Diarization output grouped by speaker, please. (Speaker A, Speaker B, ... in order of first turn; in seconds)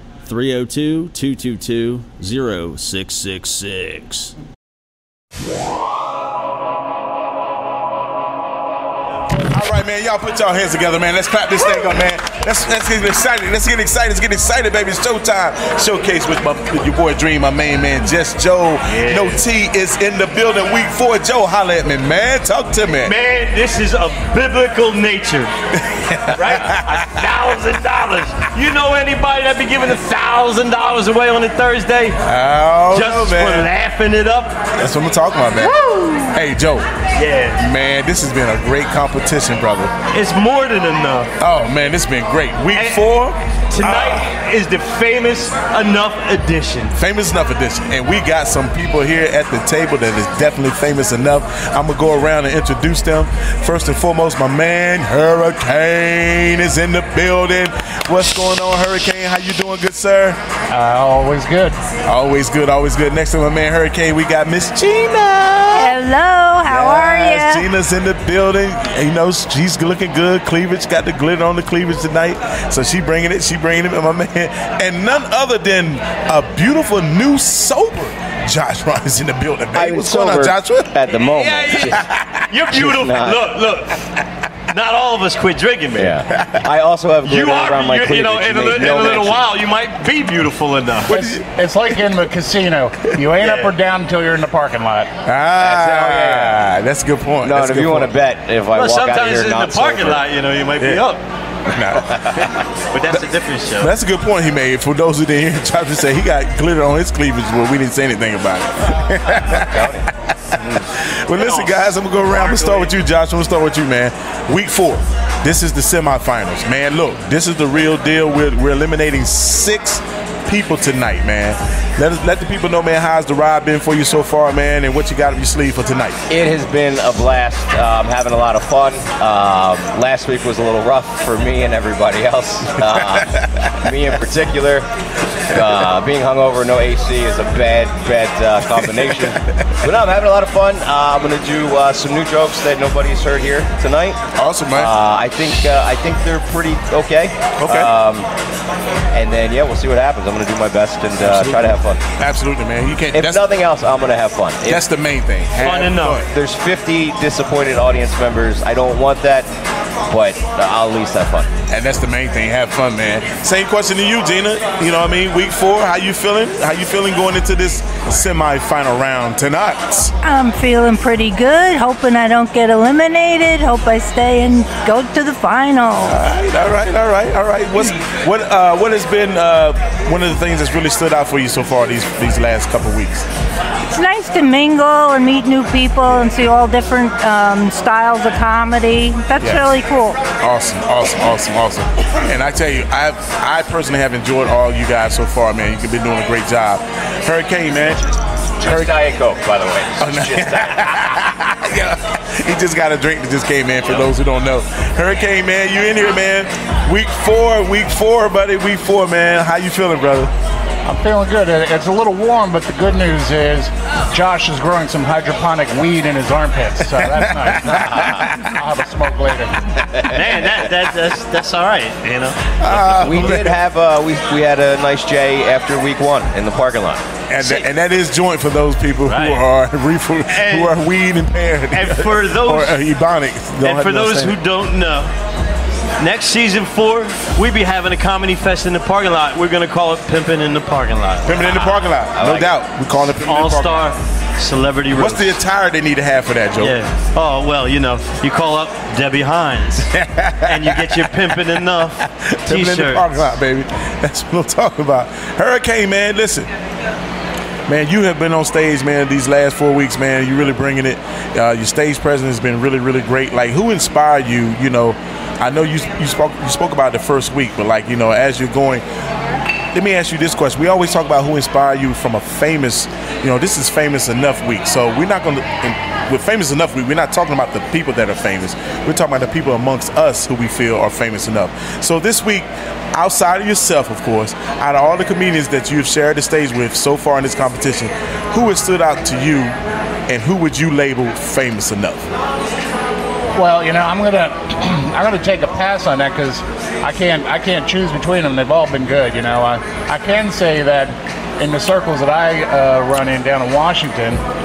Speaker A: 0.2-4.3
Speaker B: 9.5-23.1, 26.1-26.8, 32.3-33.7, 34.8-35.8, 36.3-36.9, 37.6-39.9, 41.4-43.4, 44.0-44.2, 47.0-60.4, 62.1-66.0, 66.7-80.9, 82.0-82.5, 86.3-86.6, 95.3-98.1, 101.7-102.2, 103.8-126.2, 133.0-133.8, 138.8-139.7, 144.4-144.9, 147.6-147.9, 151.3-153.4, 154.7-156.2, 161.7-170.1, 176.1-183.3, 189.4-189.7, 190.4-198.0, 198.7-198.9, 200.0-210.3, 218.2-218.5, 222.7-223.5, 227.3-234.3, 241.3-243.7, 245.0-246.7, 250.1-250.7, 252.5-256.5, 257.7-268.8, 269.7-289.6, 290.1-292.1
Speaker C: 18.9-19.4, 23.0-25.5, 26.3-32.2, 32.9-34.6, 37.2-37.7, 40.1-41.3, 42.7-43.2, 43.7-46.9, 81.1-84.0, 84.7-86.3, 87.2-91.2, 93.4-93.7, 98.7-101.2, 102.4-103.9, 111.3-112.9, 155.6-156.3, 220.0-222.6, 227.4-227.7, 229.1-229.5, 230.3-230.8, 231.7-232.8, 233.6-235.1, 236.0-241.5, 242.9-245.4, 246.6-249.9, 250.4-253.3
Speaker D: 35.6-36.4, 65.7-67.7, 170.2-176.1, 183.9-190.2
Speaker E: 60.7-61.8, 91.1-95.1, 210.8-219.6, 293.3-304.2
Speaker F: 79.7-82.1, 82.7-83.4, 86.0-89.5, 95.6-96.7, 97.4-100.2, 102.1-102.6, 109.4-110.1, 110.6-110.9, 126.3-134.9, 135.5-148.3, 149.1-152.0, 153.1-154.8, 156.2-159.5, 160.1-161.5, 198.6-201.2, 217.7-218.2, 222.7-227.0, 241.3-242.6